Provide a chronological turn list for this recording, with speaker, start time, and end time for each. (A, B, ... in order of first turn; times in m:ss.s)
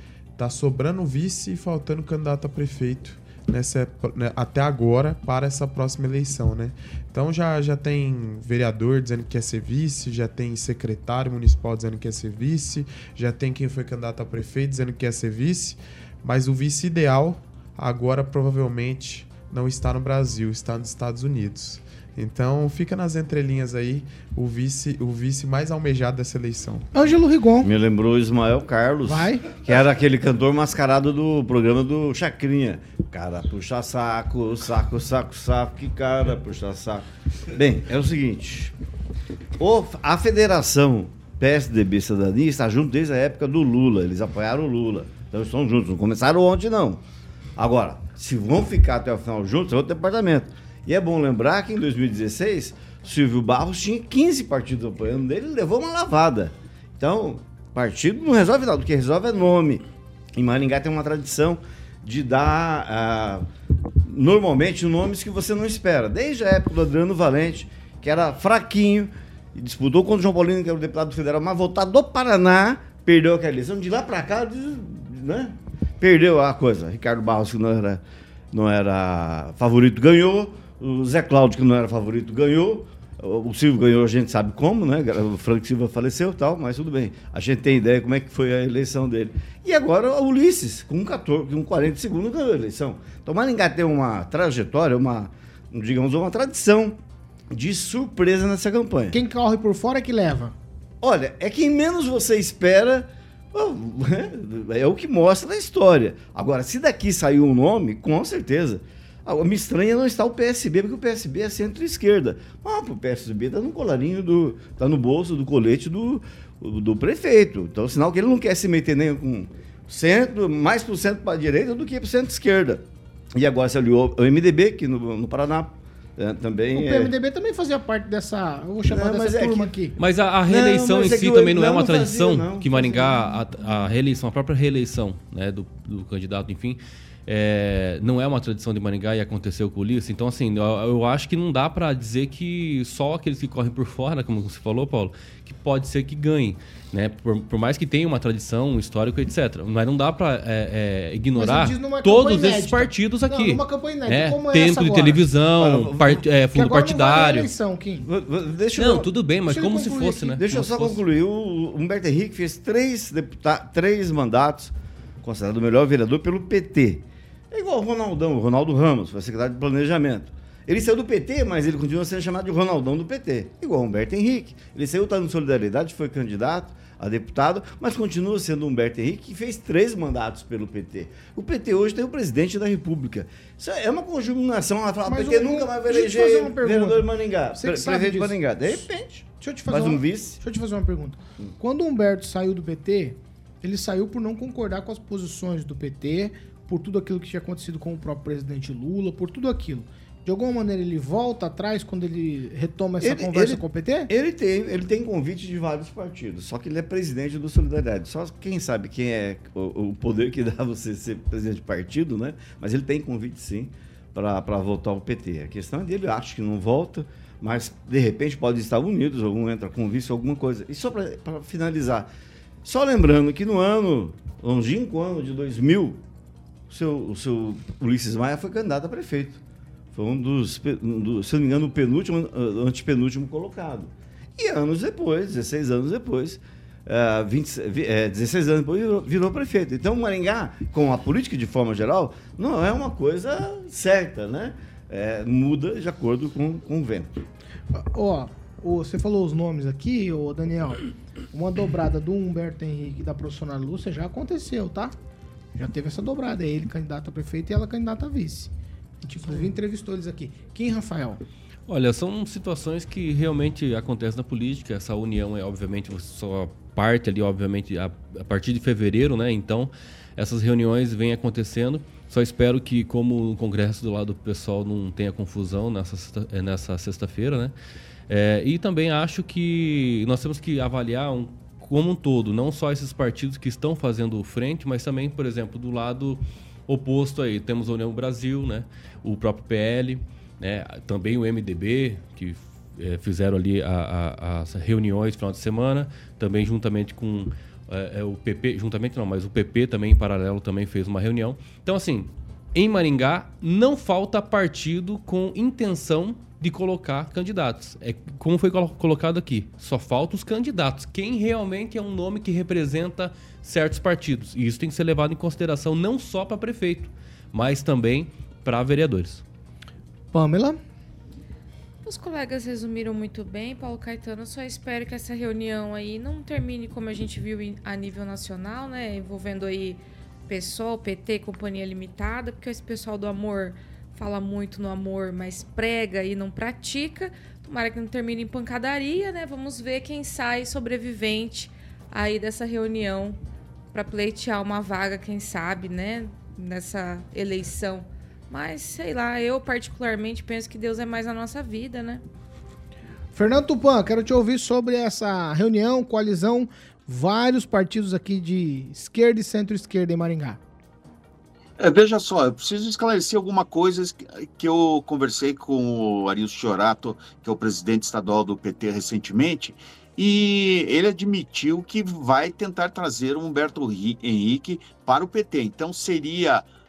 0:00.4-0:26.9 A
0:26.9-0:27.7 B
0:27.6-0:38.7 C
0:29.0-0:29.5 B
0:39.6-0:47.0 C
0:47.6-1:03.4 C
1:04.0-1:37.0 C
1:37.5-1:39.2 C
1:39.1-1:40.5 B
1:41.0-2:07.1 C
2:06.7-2:09.9 B
2:08.9-2:09.7 C
2:10.0-2:37.5 D
2:10.5-2:13.4 C
2:31.4-2:35.2 B
2:35.6-2:36.2 C
2:36.5-2:38.0 B
2:38.0-2:39.1 C
2:38.7-2:41.0 D
2:39.5-2:40.3 B
2:40.4-3:10.4 C
3:05.1-3:08.4 B
3:09.4-3:24.1 B
3:23.0-3:42.1 C
3:42.6-3:46.0 C
3:46.7-3:49.4 C
3:49.9-4:07.2 C
4:07.7-4:14.9 B
4:15.6-4:18.5 B
4:19.0-4:21.2 B
4:21.7-4:37.5 D
4:38.1-5:19.2 D
5:20.1-5:20.6 B
5:21.8-5:43.2 E
5:43.7-5:52.0 E
5:53.1-6:00.4 B
6:01.6-6:16.5 F